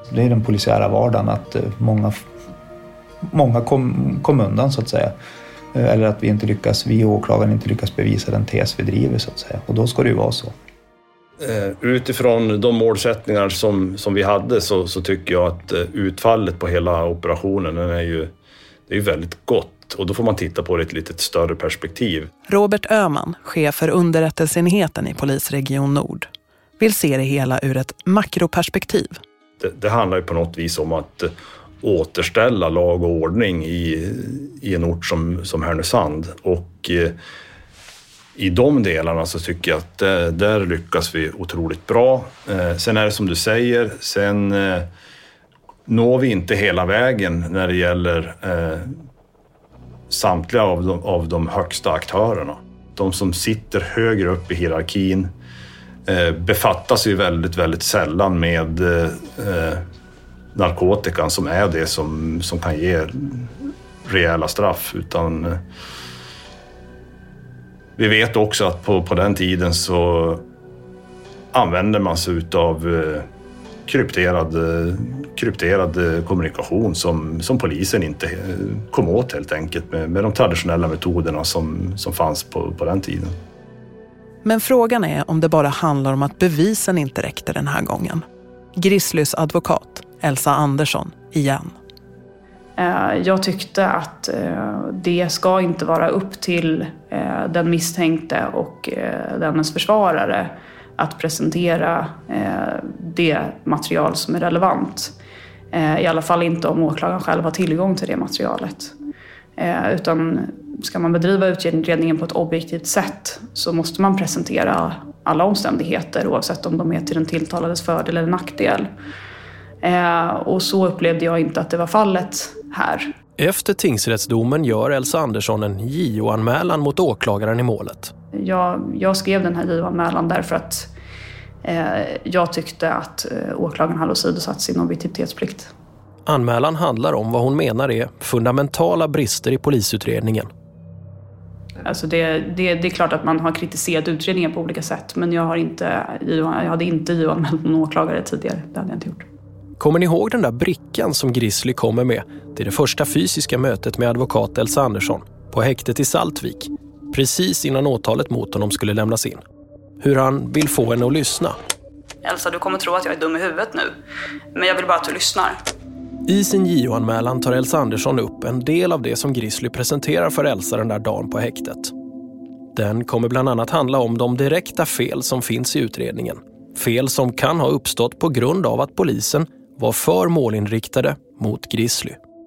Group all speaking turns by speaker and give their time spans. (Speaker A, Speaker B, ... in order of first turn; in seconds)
Speaker A: 0.1-2.2, 3.3-5.2, 5.7-10.5
Speaker B: 11.4-18.3, 18.9-22.3, 29.6-37.1, 38.4-44.9, 45.9-48.9, 50.1-55.3, 56.0-59.8, 60.5-63.5, 64.0-65.6, 68.0-70.4, 71.5-73.2, 73.8-83.4
Speaker C: 22.5-26.3, 26.8-29.1, 84.4-88.2, 88.8-91.7
Speaker D: 92.8-105.1, 105.7-108.9, 109.6-118.9, 119.8-123.1, 128.3-130.9, 131.6-135.7, 141.8-149.2, 162.2-163.9, 164.5-165.6
Speaker E: 123.4-128.1, 136.2-140.5, 149.8-159.4, 160.0-161.6, 166.2-171.9, 172.7-182.2